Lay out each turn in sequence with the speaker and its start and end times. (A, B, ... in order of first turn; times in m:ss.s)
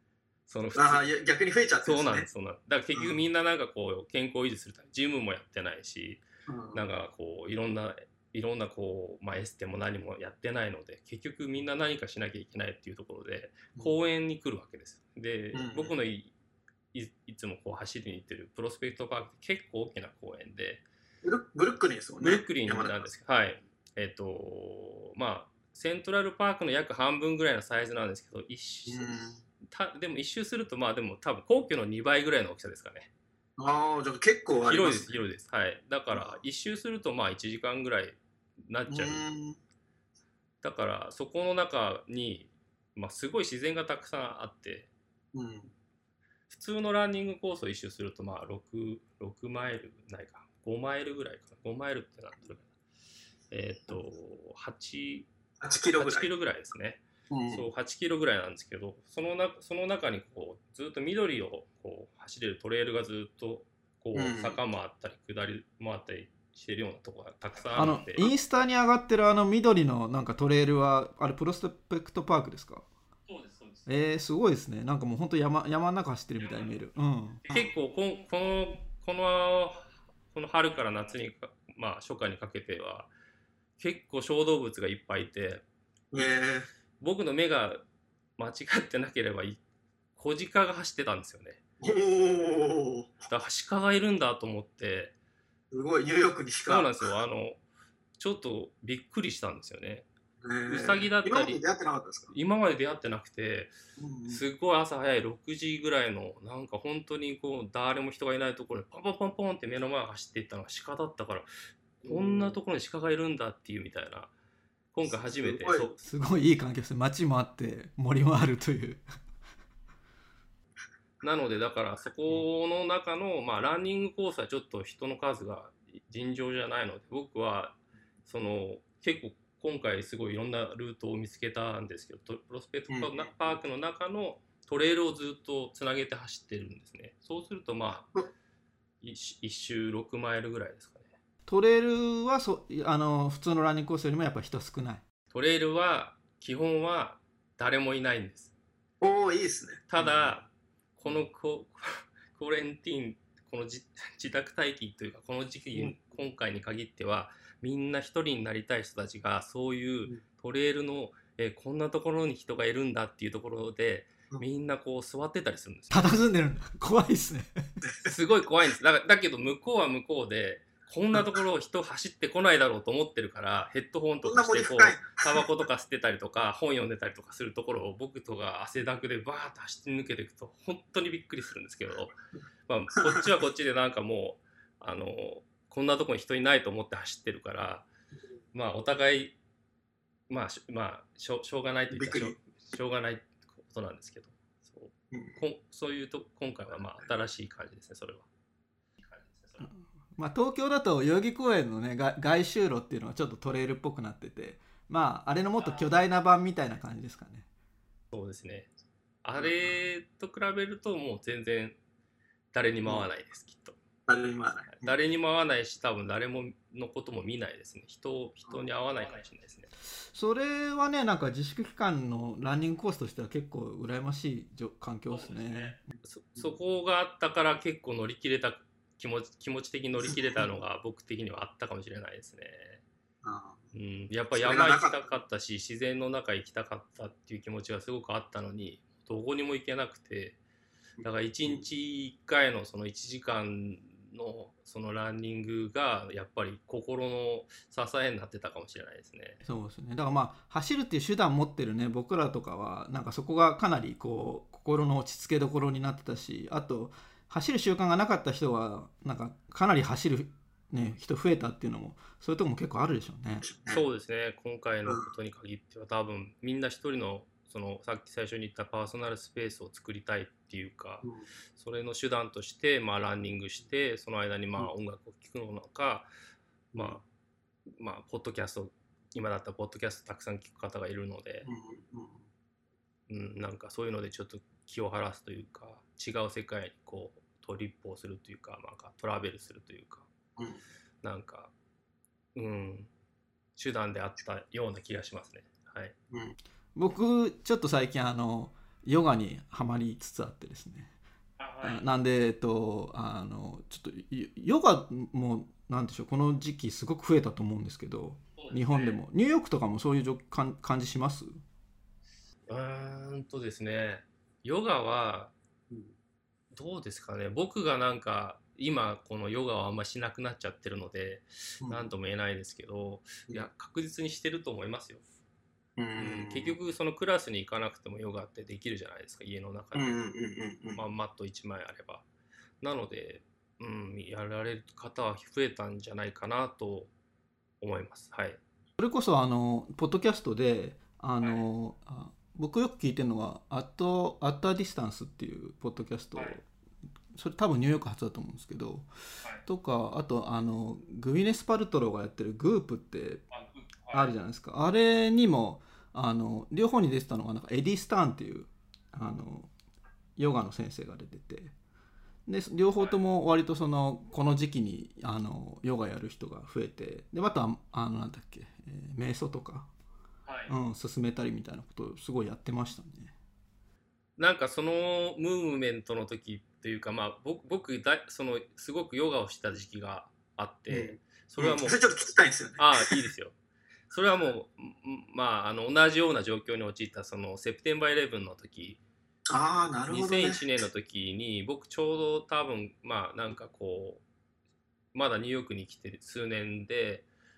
0:00.5-0:01.0 A
0:00.7-0:02.3 B
0:01.8-0:16.3 A
0:06.5-0:06.8 B
0:15.5-0:15.9 B
0:16.9-0:20.8 A
0:21.2-0:23.0 B
0:22.2-0:29.1 A
0:28.9-0:29.4 B
0:29.6-0:33.1 A
0:33.6-0:35.1 B
0:34.7-0:39.2 A
0:36.1-0:36.4 B
0:38.9-0:39.6 B
0:40.6-0:44.9 A
0:45.3-0:45.7 B
0:46.5-0:52.7 A
0:53.5-0:55.3 A
0:55.6-0:56.3 B
0:56.0-1:08.2 A
0:57.3-0:57.6 B
1:04.1-1:04.6 B
1:07.7-1:08.3 B
1:07.7-1:12.8 C
1:13.3-1:13.8 A
1:13.8-1:17.5 C
1:17.5-1:23.1 A
1:23.8-1:25.6 A
1:26.1-1:26.7 B
1:27.0-1:27.8 A
1:28.4-1:29.6 A
1:30.2-1:31.6 A
1:31.8-1:33.1 B
1:33.3-1:35.1 A
1:35.7-1:37.0 B
1:36.7-1:37.6 A
1:38.2-1:40.1 A
1:40.4-1:42.3 B
1:40.7-1:41.6 A
1:42.3-1:43.7 A
1:44.0-1:44.4 B
1:44.3-1:51.5 A
1:52.0-1:54.3 A
1:52.0-1:52.5 B
1:54.9-1:55.9 A
1:55.1-1:55.9 B
1:56.0-1:59.0 C
2:01.2-2:07.8 A
2:08.3-2:18.1 A
2:12.9-2:13.3 B
2:19.0-2:21.1 A
2:21.4-2:25.0 C
2:25.3-2:28.5 A
2:29.0-2:30.4 B
2:29.9-2:46.1 A
2:45.9-2:47.6 C
2:48.0-3:02.1 A
2:54.2-2:55.4 B
3:02.7-3:07.8 A
3:03.0-3:03.2 B
3:08.5-3:09.3 A
3:10.3-3:18.3 A
3:11.9-3:12.3 B
3:15.1-3:15.4 B
3:19.0-3:19.7 A
3:20.1-3:27.5 C
3:28.1-3:28.7 A
3:29.2-3:31.8 A
3:32.5-3:33.8 A
3:34.1-3:34.9 B
3:34.7-3:39.7 A
3:40.1-3:45.8 C
3:45.1-3:52.8 A
3:53.2-3:53.6 B
3:53.7-4:00.4 A
3:54.3-3:55.2 B
4:01.0-4:01.6 B
4:01.0-4:09.4 A
4:09.4-4:23.4 C
4:23.4-4:23.8 B
4:23.7-4:31.0 A
4:31.6-4:36.1 A
4:36.7-4:37.0 A
4:36.7-4:37.0 B
4:37.8-4:41.5 A
4:41.4-4:42.2 B
4:43.1-4:50.1 A
4:51.0-4:51.5 A
4:52.3-4:52.9 A
4:53.6-4:55.9 A
4:56.1-4:56.4 B
4:56.7-5:00.9 C
5:01.4-5:01.8 A
5:01.6-5:11.4 C
5:08.4-5:09.0 A
5:12.5-5:15.3 A
5:16.5-5:25.0 A
5:21.6-5:21.9 B
5:25.8-5:26.6 B
5:26.0-5:30.0 A
5:29.7-5:30.8 B
5:30.7-5:32.0 A
5:32.6-5:36.9 A
5:37.6-5:38.4 A
5:38.8-5:46.4 C
5:47.1-5:48.9 C
5:49.4-5:53.2 C
5:53.3-5:54.1 A
5:53.9-5:59.5 C
6:00.2-6:01.5 C
6:02.2-6:09.7 C
6:10.2-6:10.5 A
6:10.5-6:13.1 C
6:14.2-6:21.8 A
6:20.7-6:23.0 B
6:22.6-6:23.3 A
6:23.9-6:28.8 A
6:29.3-6:30.4 B
6:29.9-6:34.0 A
6:34.9-6:37.0 A